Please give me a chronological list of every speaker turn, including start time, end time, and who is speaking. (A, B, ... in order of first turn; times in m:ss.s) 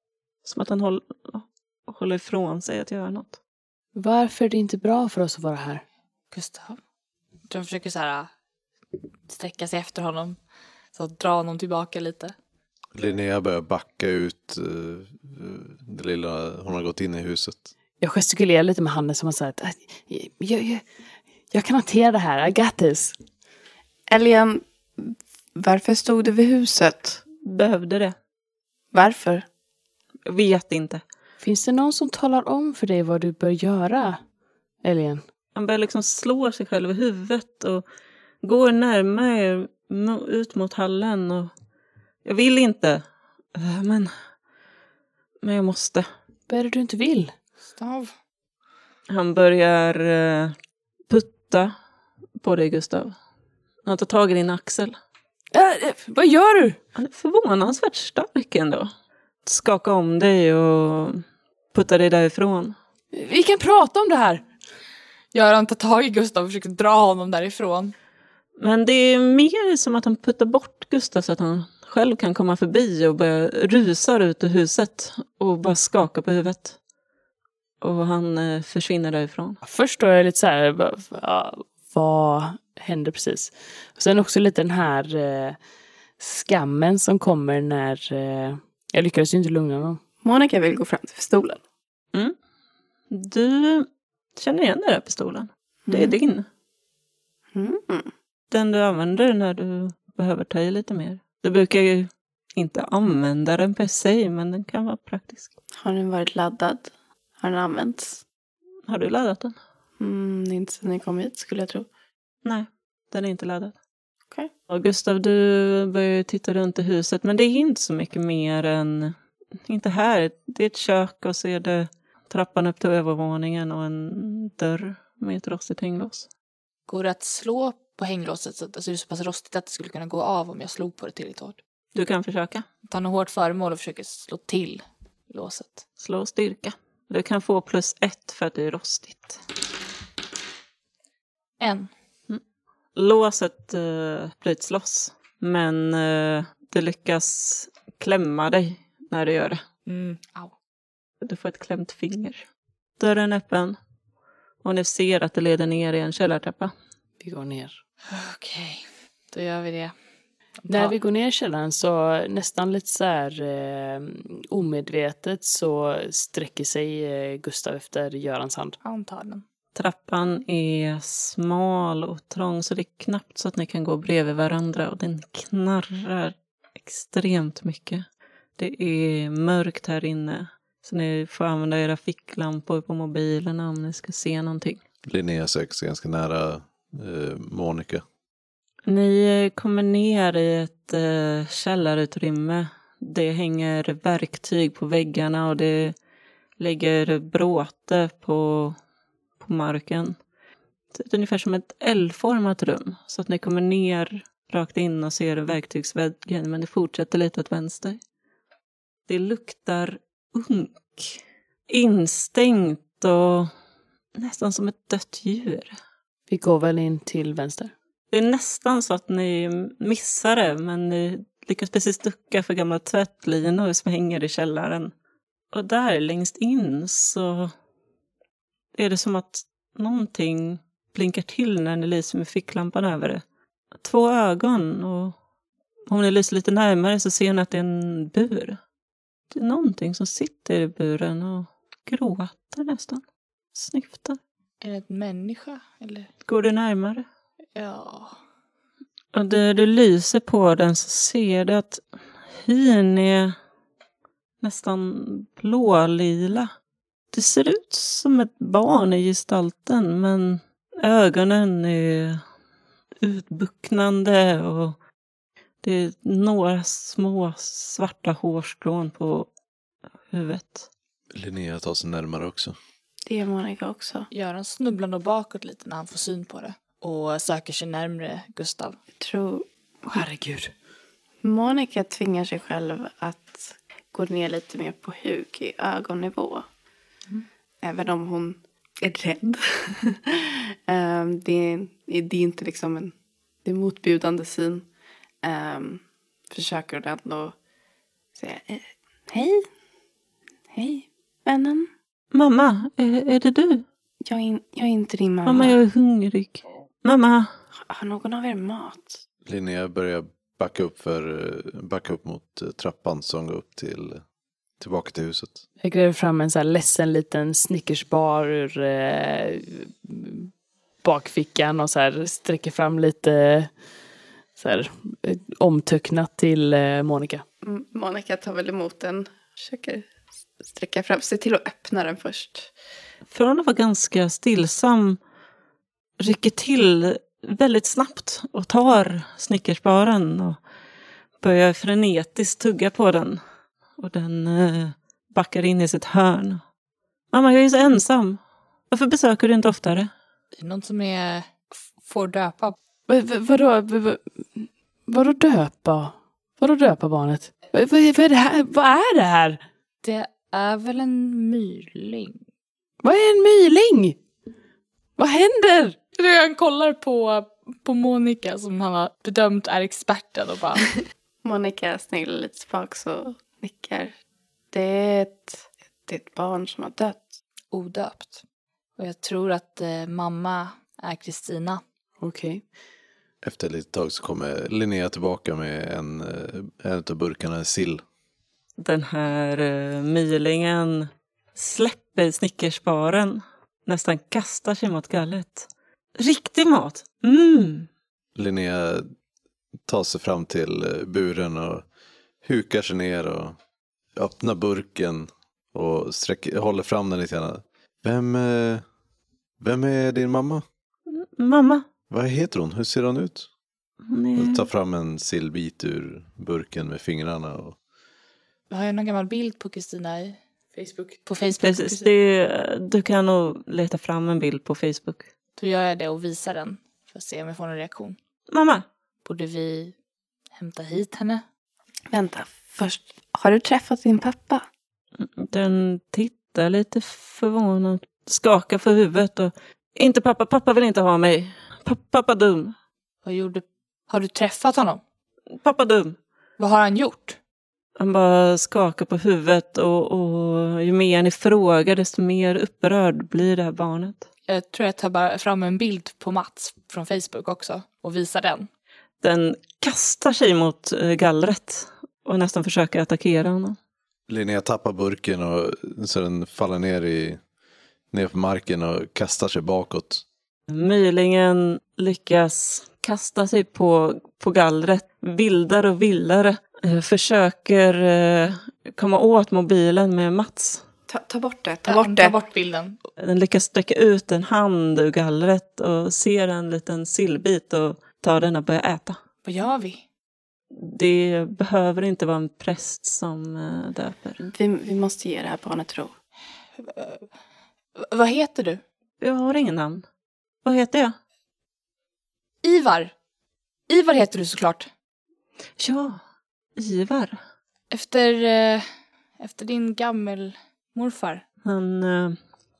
0:00.4-0:03.4 A
0:03.9-0:05.8 B
0:06.3-0:06.8 C
0:07.5-0:08.3 C
0:09.2-0:10.4 C
0:10.9-0:12.3 C
0:12.9-0:17.7 D
0:18.0-0:20.9 B
0:21.5-0:23.2 B
0:24.1-0:27.2 E
0:27.4-0:28.1 A
0:28.9-0:29.4 E
0:30.2-0:31.0 A
0:31.4-0:34.2 B
0:34.8-0:35.2 B
0:35.5-0:37.8 A
0:38.4-0:41.5 A
0:42.2-0:44.1 A
0:45.4-0:46.1 A
0:46.5-0:47.3 B
0:47.7-0:48.1 C
0:49.1-0:50.6 A
0:51.1-0:51.7 A
0:52.4-0:53.2 A
0:53.8-0:55.0 A
0:55.5-0:56.8 B
0:56.9-0:58.9 A
0:59.4-1:02.8 A
1:03.1-1:04.5 B
1:05.3-1:07.9 C
1:08.6-1:16.8 A
1:17.8-1:19.6 A
1:19.6-1:25.6 B
1:26.2-1:30.0 B
1:30.2-1:31.6 E
1:33.1-1:36.4 A
1:35.9-1:36.1 E
1:37.5-1:38.1 E
1:38.5-1:45.5 A
1:45.8-1:48.2 E
1:48.9-1:49.6 A
1:50.0-1:51.9 E
1:52.4-1:53.8 A
1:54.7-2:06.3 A
2:06.9-2:11.6 C
2:11.9-2:12.6 A
2:12.9-2:15.8 C
2:16.0-2:19.4 A
2:21.6-2:21.9 C
2:22.9-2:29.6 A
2:29.8-2:30.5 C
2:31.2-2:32.4 A
2:33.0-2:33.8 A
2:34.6-2:36.7 A
2:37.2-2:37.8 B
2:38.1-2:39.9 C
2:40.6-2:40.9 C
2:40.7-2:48.8 B
2:48.8-2:49.4 C
2:49.7-2:58.0 A
2:58.6-3:04.8 A
3:05.0-3:08.0 D
3:08.9-3:15.9 A
3:16.6-3:18.8 A
3:19.4-3:20.2 A
3:20.9-3:28.0 A
3:29.1-3:33.5 A
3:34.1-3:35.7 A
3:36.3-3:37.7 B
3:38.1-3:44.9 A
3:45.5-3:47.5 A
3:48.7-3:53.2 A
3:53.8-3:55.1 A
3:55.9-3:58.6 A
3:59.3-4:03.0 A
4:03.5-4:04.2 A
4:04.6-4:06.1 C
4:06.2-4:07.0 A
4:07.5-4:08.2 C
4:09.1-4:13.4 A
4:14.4-4:16.5 A
4:17.1-4:22.2 A
4:23.0-4:24.8 A
4:25.6-4:29.3 A
4:30.1-4:30.7 A
4:31.1-4:32.5 D
4:33.0-4:34.1 E
4:34.1-4:38.8 C
4:39.0-4:39.4 E
4:39.9-4:40.5 B
4:41.2-4:46.4 E
4:47.6-4:54.7 E
4:55.2-4:57.3 E
4:58.1-4:59.4 E
5:00.5-5:01.7 E
5:02.1-5:03.6 A
5:04.0-5:05.6 E
5:05.2-5:07.3 A
5:07.7-5:09.0 E
5:09.2-5:14.0 D
5:14.6-5:15.4 D
5:15.6-5:23.5 B
5:24.4-5:27.2 B
5:27.4-5:32.5 E
5:33.1-5:35.0 A
5:36.0-5:40.4 A
5:41.2-5:43.2 A
5:43.8-5:46.4 A
5:47.1-5:49.9 A
5:50.3-5:52.6 C
5:52.9-5:59.4 B
5:59.8-6:02.2 C
6:02.8-6:04.0 B
6:05.0-6:05.8 B
6:06.0-6:10.7 C
6:11.2-6:13.9 E
6:14.5-6:17.2 E
6:17.5-6:18.2 C
6:18.8-6:21.6 C
6:22.0-6:22.4 B
6:23.2-6:27.8 D
6:28.6-6:37.7 A
6:38.1-6:38.9 D
6:39.6-6:41.6 D
6:42.2-6:43.4 D
6:44.0-6:48.6 D
6:49.4-6:50.4 D
6:50.9-6:51.6 A
6:51.9-6:53.3 D
6:53.9-6:54.5 A
6:54.2-6:57.6 D
6:58.5-7:00.2 C
7:00.5-7:01.0 B
7:01.0-7:01.9 C
7:01.4-7:05.1 A
7:05.4-7:08.0 C
7:08.3-7:08.6 A
7:09.0-7:09.7 C
7:10.4-7:11.2 C
7:11.9-7:14.4 E
7:15.0-7:22.6 A
7:23.0-7:24.8 C
7:25.4-7:26.0 A
7:26.4-7:27.2 C
7:27.8-7:34.1 A
7:34.3-7:38.5 C
7:39.0-7:43.6 A
7:44.1-7:47.2 D
7:47.9-7:50.0 D
7:50.5-8:00.6 A
8:00.9-8:02.2 E
8:01.7-8:02.8 C
8:03.0-8:09.0 A
8:09.2-8:09.8 C
8:10.5-8:14.2 A
8:14.2-8:15.9 E
8:16.6-8:17.0 C
8:17.8-8:18.6 C
8:19.0-8:19.8 A
8:20.4-8:20.9 A
8:22.4-8:22.9 C
8:23.7-8:24.7 C
8:25.6-8:26.0 A
8:26.6-8:27.2 A
8:27.7-8:28.6 C
8:29.2-8:31.2 C
8:31.4-8:32.2 A